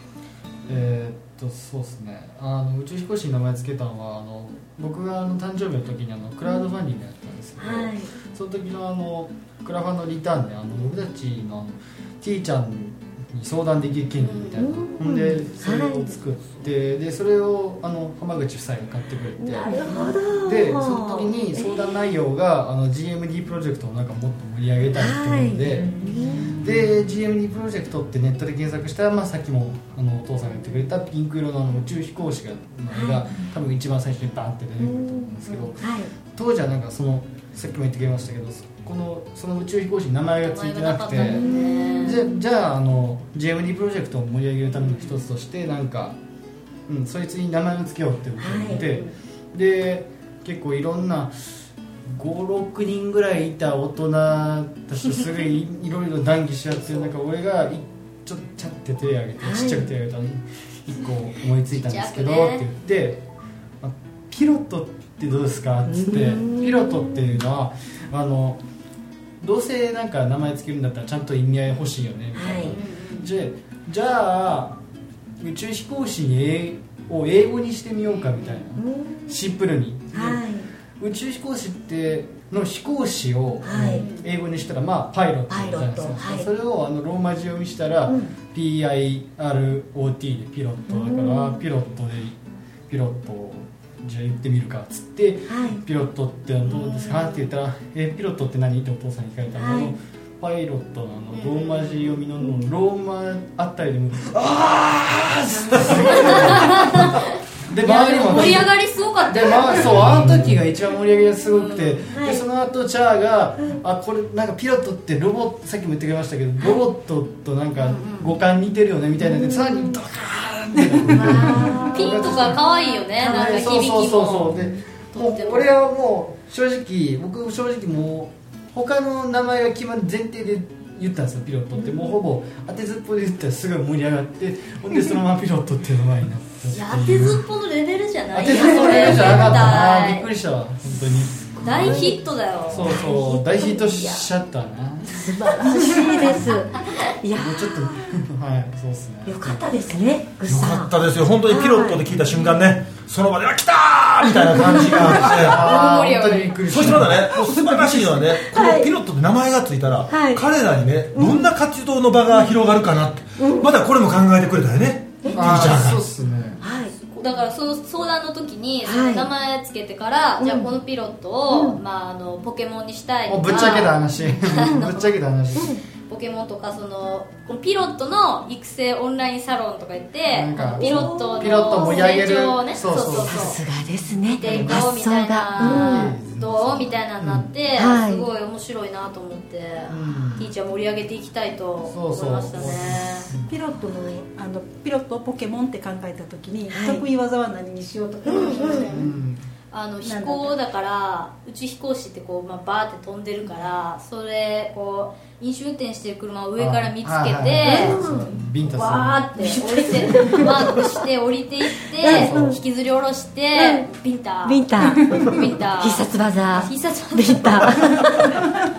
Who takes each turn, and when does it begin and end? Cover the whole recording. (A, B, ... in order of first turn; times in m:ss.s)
0:00.6-0:46.2 A
0:07.6-0:08.1 B
0:14.2-0:14.6 C
0:14.6-0:16.1 B
0:19.4-0:21.9 B
0:24.9-0:26.7 B
0:32.9-0:33.3 B
0:34.8-0:36.1 B
0:40.4-0:42.2 C
0:41.2-0:42.2 B
0:46.9-0:51.3 A
0:48.4-0:48.8 B
0:48.8-0:49.1 C
0:52.0-1:03.2 A
0:59.4-0:59.9 B
1:01.7-1:02.6 C
1:03.8-1:08.6 A
1:05.9-1:07.3 B
1:09.4-1:14.8 A
1:12.4-1:12.7 B
1:12.7-1:13.3 C
1:15.4-1:20.4 A
1:18.8-1:19.4 B
1:20.1-1:20.7 B
1:21.0-1:44.6 A
1:23.6-1:24.0 B
1:23.8-1:24.3 C
1:25.5-1:26.5 B
1:28.1-1:28.3 B
1:30.9-1:31.6 B
1:35.5-1:35.8 B
1:36.7-1:37.4 C
1:39.6-1:39.9 B
1:41.3-1:42.2 C
1:44.4-1:45.5 D
1:45.5-1:46.6 B
1:45.5-2:17.4 A
1:46.1-1:50.2 C
1:51.4-1:52.0 C
1:52.1-1:52.4 B
1:57.8-1:58.4 C
1:59.2-2:00.0 B
2:00.7-2:03.8 B
2:01.1-2:05.7 C
2:16.7-2:20.3 C
2:18.3-2:26.5 A
2:18.7-2:19.5 B
2:21.5-2:22.2 B
2:21.6-2:23.0 C
2:22.7-2:24.3 B
2:25.1-2:28.0 B
2:26.7-2:27.1 C
2:27.3-2:29.7 A
2:29.2-2:30.9 B
2:30.4-2:35.7 D
2:31.4-2:32.1 B
2:34.6-2:34.8 B
2:34.6-2:37.4 A
2:35.2-2:37.0 C
2:36.6-2:46.0 D
2:38.4-2:38.9 B
2:40.1-2:40.5 B
2:41.1-2:41.5 B
2:43.4-2:43.7 B
2:45.2-2:45.7 B
2:45.3-2:46.6 A
2:46.6-2:47.3 B
2:47.1-2:55.1 C
2:48.8-2:49.3 B
2:50.4-2:50.7 B
2:51.5-2:51.8 B
2:53.3-2:55.8 A
2:55.6-2:55.8 B
2:56.1-3:03.6 C
3:00.3-3:03.6 A
3:00.6-3:02.1 B
3:03.3-3:06.1 B
3:04.2-3:13.3 C
3:04.4-3:04.9 A
3:05.6-3:07.5 A
3:07.7-3:08.3 B
3:09.9-3:10.5 A
3:11.8-3:13.5 A
3:13.4-3:18.9 E
3:16.7-3:17.0 B
3:18.2-3:18.9 B
3:18.3-3:19.1 C
3:18.8-3:19.4 A
3:19.7-3:28.1 C
3:20.0-3:20.5 E
3:26.6-3:29.6 A
3:27.6-3:28.3 B
3:28.6-3:38.0 C
3:29.4-3:30.9 B
3:30.2-3:30.5 A
3:32.0-3:32.6 B
3:32.0-3:32.6 A
3:33.5-3:33.8 B
3:34.4-3:38.5 B